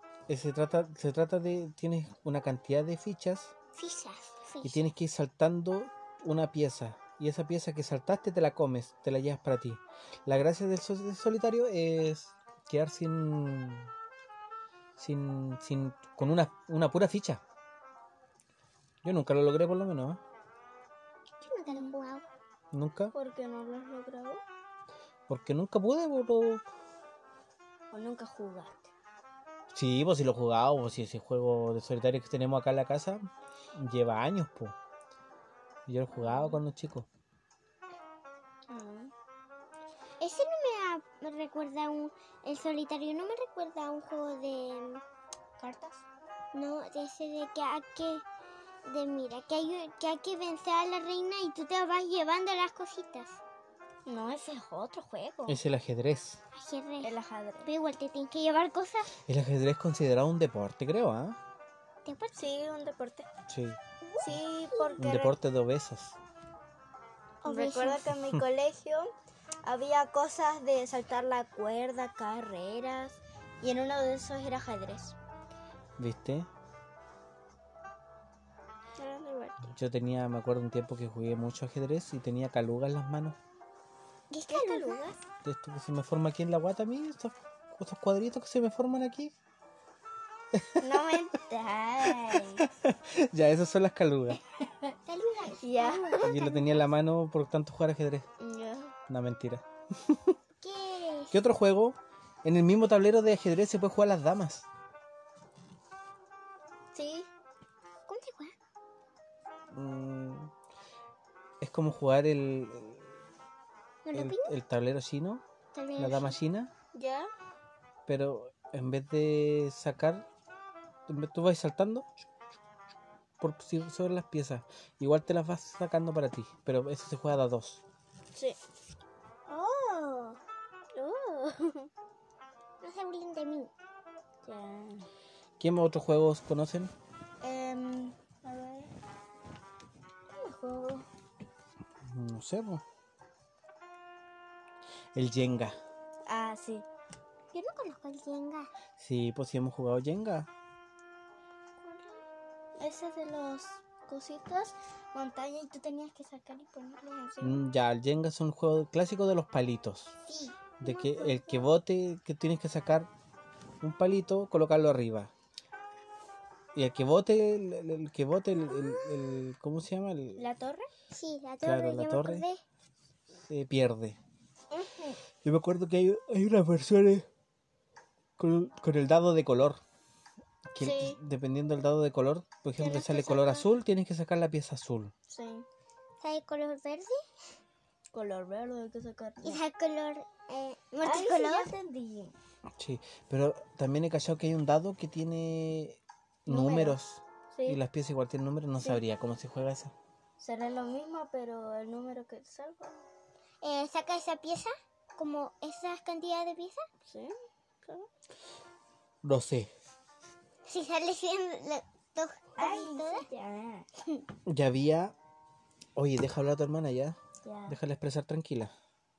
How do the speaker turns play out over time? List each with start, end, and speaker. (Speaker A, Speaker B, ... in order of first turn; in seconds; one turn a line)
Speaker A: 0.3-3.5
Speaker B: 3.8-4.8
Speaker A: 4.6-13.9
Speaker A: 15.0-17.4
Speaker A: 19.0-20.2
Speaker B: 21.4-22.2
Speaker A: 22.7-23.1
Speaker C: 23.1-24.4
Speaker A: 25.3-26.6
Speaker C: 27.9-28.9
Speaker A: 29.7-33.2
Speaker A: 33.7-34.8
Speaker A: 35.9-37.1
Speaker C: 36.1-36.6
Speaker C: 38.7-39.1
Speaker B: 40.2-45.0
Speaker C: 45.6-46.0
Speaker B: 46.5-48.2
Speaker B: 48.9-53.4
Speaker C: 54.0-55.6
Speaker A: 55.5-56.4
Speaker B: 56.5-57.1
Speaker C: 57.0-57.7
Speaker B: 57.6-59.1
Speaker A: 59.2-61.4
Speaker B: 62.0-62.5
Speaker C: 62.4-63.3
Speaker A: 63.5-63.8
Speaker B: 64.0-65.0
Speaker C: 64.2-65.3
Speaker A: 65.0-66.2
Speaker B: 67.4-68.1
Speaker C: 67.4-69.1
Speaker C: 69.6-75.2
Speaker A: 76.0-76.5
Speaker C: 79.0-79.7
Speaker A: 79.7-83.4
Speaker B: 84.3-85.0
Speaker C: 84.5-85.2
Speaker A: 85.4-89.3
Speaker A: 90.5-91.2
Speaker C: 90.8-92.6
Speaker A: 92.0-94.4
Speaker B: 95.0-96.6
Speaker C: 95.6-96.4
Speaker A: 96.2-98.3
Speaker C: 98.4-98.9
Speaker A: 99.1-100.4
Speaker B: 100.6-101.4
Speaker A: 101.3-104.7
Speaker C: 106.9-107.3
Speaker B: 108.1-108.5
Speaker A: 109.7-110.5
Speaker A: 111.6-113.1
Speaker B: 114.0-114.5
Speaker A: 114.1-115.4
Speaker B: 115.7-116.3
Speaker A: 116.0-116.7
Speaker C: 116.9-117.3
Speaker A: 118.1-120.2
Speaker A: 121.1-122.1
Speaker A: 123.4-127.8
Speaker B: 129.5-130.4
Speaker C: 130.9-131.9
Speaker B: 132.8-133.7
Speaker C: 134.4-135.1
Speaker A: 135.6-136.9
Speaker C: 137.4-138.9
Speaker C: 140.3-141.1
Speaker A: 142.0-142.8
Speaker A: 145.1-145.8
Speaker C: 146.3-146.8
Speaker B: 147.5-148.7
Speaker A: 149.0-150.5
Speaker B: 151.8-152.2
Speaker C: 152.8-157.6
Speaker A: 157.4-160.2
Speaker B: 160.3-161.6
Speaker A: 160.8-163.1
Speaker A: 163.8-165.3
Speaker A: 166.8-170.4
Speaker B: 168.7-169.2
Speaker C: 170.4-170.9
Speaker B: 171.1-172.6
Speaker A: 171.6-172.4
Speaker A: 173.5-174.2
Speaker C: 174.7-175.2
Speaker A: 175.4-177.3
Speaker A: 178.4-179.8
Speaker A: 180.7-185.1
Speaker C: 180.8-181.2
Speaker C: 182.8-183.7
Speaker C: 185.3-185.7
Speaker B: 186.2-187.2
Speaker C: 188.1-189.6
Speaker B: 189.4-191.7
Speaker C: 191.0-192.3
Speaker A: 192.8-199.9
Speaker C: 196.5-197.0
Speaker C: 197.5-197.8
Speaker C: 200.4-203.1
Speaker B: 203.6-206.8
Speaker C: 207.1-207.3
Speaker A: 209.2-209.7
Speaker B: 210.7-213.2
Speaker C: 212.6-213.9
Speaker A: 214.4-215.1
Speaker A: 215.9-218.7
Speaker C: 217.4-217.8